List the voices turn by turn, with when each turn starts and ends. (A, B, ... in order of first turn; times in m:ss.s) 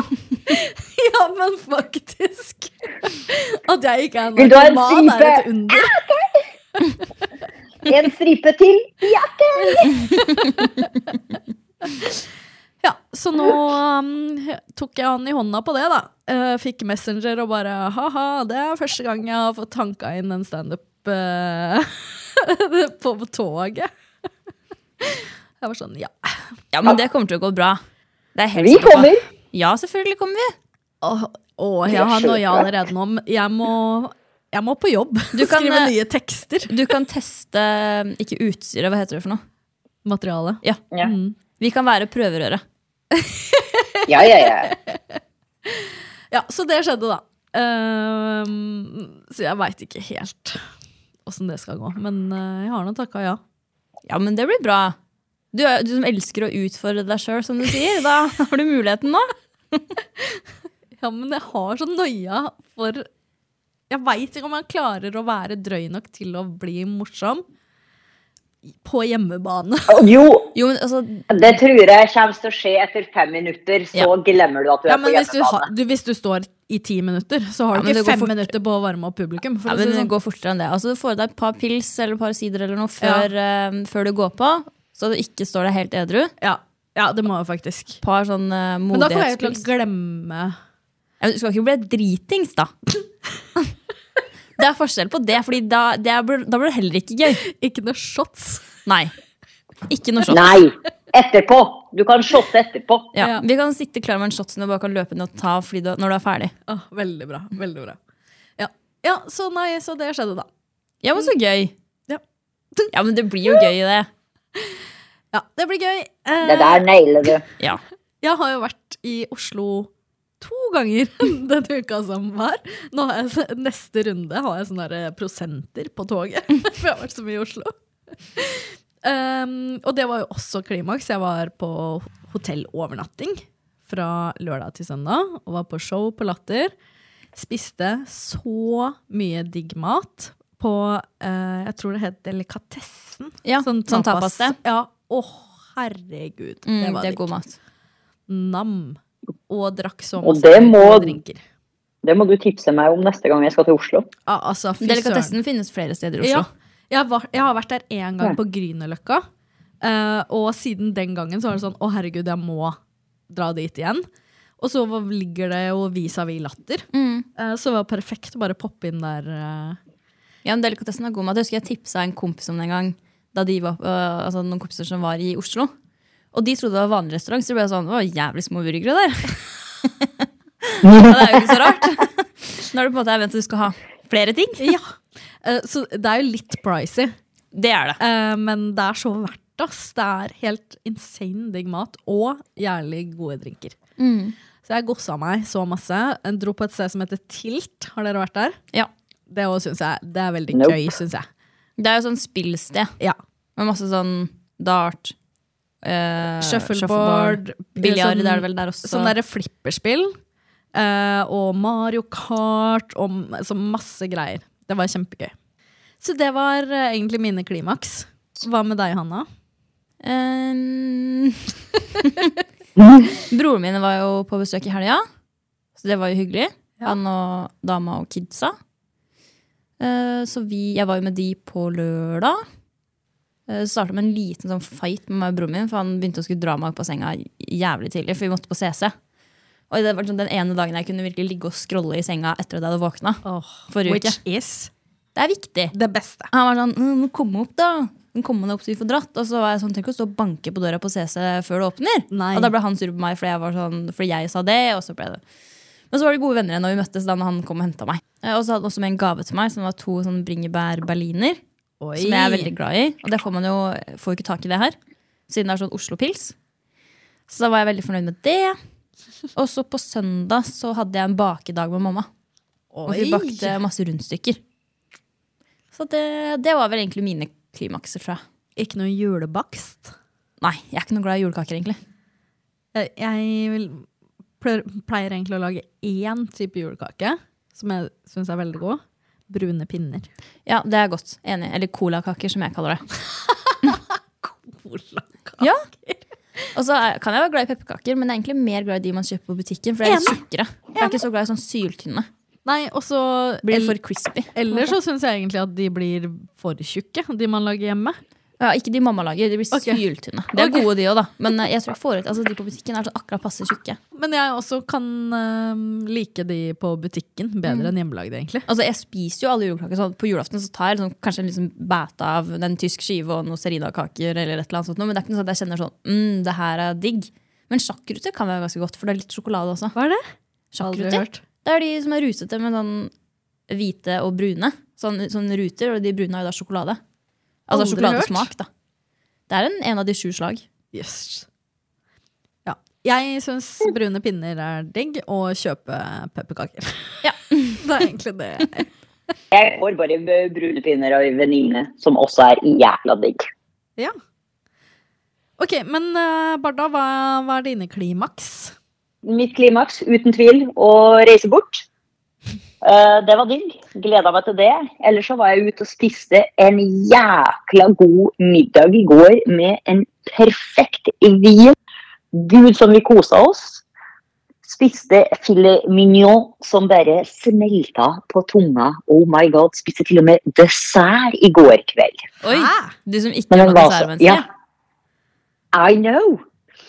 0:00.5-0:06.0 A
0:04.4-0:06.4 B
0:07.8-0:10.0 B
0:09.6-0:10.9 A
0:11.8-0:12.2 A
0:12.8-0:23.9 A
0:25.0-0:26.1 A
0:26.7-0:27.8 C
0:28.4-0:30.5 C
0:28.6-0:29.2 B
0:31.0-0:36.7 A
0:31.9-0:32.6 B
0:35.4-0:35.9 C
0:36.7-0:39.4 C
0:40.0-0:41.4 A
0:41.6-0:42.6 C
0:43.2-0:50.6 A
0:44.1-0:44.7 B
0:51.2-0:53.4 A
0:54.1-0:55.0 C
0:55.5-0:59.8 C
1:01.0-1:03.1 A
1:03.9-1:07.4 A
1:08.8-1:10.1 A
1:09.9-1:10.5 B
1:10.6-1:11.3 C
1:11.3-1:15.7 B
1:14.9-1:20.1 A
1:17.8-1:18.5 C
1:19.7-1:26.3 C
1:23.0-1:23.3 A
1:26.4-1:28.0 A
1:28.0-1:29.6 C
1:28.9-1:30.6 A
1:31.2-1:32.7 C
1:34.6-1:37.4 C
1:37.4-1:38.7 A
1:38.9-1:39.1 C
1:39.9-1:40.6 C
1:40.3-1:43.1 B
1:43.1-1:46.5 C
1:43.2-1:43.4 A
1:46.7-1:48.0 A
1:48.6-1:50.5 A
1:51.0-1:51.7 C
1:52.9-1:54.1 C
1:55.3-1:57.3 A
1:56.4-1:57.4 B
1:58.2-1:59.9 A
2:00.4-2:07.7 A
2:08.4-2:16.7 A
2:17.4-2:27.2 A
2:23.4-2:24.6 C
2:26.7-2:27.6 C
2:28.3-2:31.4 A
2:30.2-2:31.2 B
2:32.0-2:34.1 B
2:34.3-2:35.3 A
2:34.8-2:36.5 C
2:36.2-2:39.2 A
2:39.8-2:42.8 A
2:43.3-2:44.1 A
2:44.6-2:49.8 A
2:46.9-2:47.3 C
2:50.4-2:55.7 C
2:56.3-3:00.1 C
3:00.6-3:04.7 C
3:04.6-3:07.1 A
3:07.5-3:08.0 C
3:08.0-3:13.8 A
3:14.0-3:14.4 C
3:14.6-3:18.6 A
3:19.3-3:21.2 A
3:20.5-3:20.8 B
3:21.8-3:22.9 C
3:23.6-3:25.2 C
3:25.8-3:29.1 C
3:26.4-3:30.2 A
3:30.8-3:35.3 A
3:36.0-3:39.3 A
3:40.0-3:41.4 C
3:42.0-3:42.3 C
3:42.8-3:43.1 B
3:43.2-3:45.0 C
3:45.8-3:48.6 C
3:49.8-3:52.4 C
3:53.5-3:58.9 C
3:59.7-4:04.2 C
4:03.2-4:04.7 A
4:05.2-4:05.7 C
4:05.7-4:06.3 A
4:06.3-4:15.2 C
4:12.1-4:12.5 A
4:15.9-4:21.4 C
4:21.8-4:22.5 A
4:22.0-4:24.8 C
4:25.3-4:26.3 C
4:27.3-4:28.6 C
4:29.4-4:32.1 C
4:32.7-4:33.6 A
4:32.9-4:34.4 C
4:35.7-4:38.2 C
4:38.6-4:39.9 A
4:40.4-4:41.8 C
4:42.7-4:43.9 A
4:44.4-4:50.1 A
4:50.5-4:52.8 C
4:53.2-4:56.4 A
4:55.4-4:55.6 C
4:56.5-5:02.1 C
4:59.8-5:00.2 A
5:02.5-5:03.8 A
5:03.4-5:04.8 C
5:04.3-5:08.0 A
5:08.4-5:13.8 C
5:09.5-5:09.8 A
5:10.4-5:10.7 A
5:14.0-5:18.4 A
5:17.5-5:17.7 C
5:18.5-5:29.8 C
5:29.8-5:30.0 A
5:30.5-5:32.9 C
5:30.6-5:31.2 A
5:33.5-5:36.8 C
5:37.5-5:38.5 C
5:37.5-5:38.3 A
5:39.3-5:40.4 C
5:40.7-5:41.2 A
5:42.5-5:47.0 A
5:47.0-5:47.6 C
5:47.6-5:48.7 A
5:49.3-5:53.3 B
5:55.4-5:58.6 A
5:59.0-6:01.6 B
6:02.6-6:11.6 B
6:12.1-6:13.6 B
6:14.4-6:22.1 B
6:22.2-6:22.7 A
6:22.2-6:24.2 C
6:23.3-6:24.2 B
6:25.5-6:26.2 B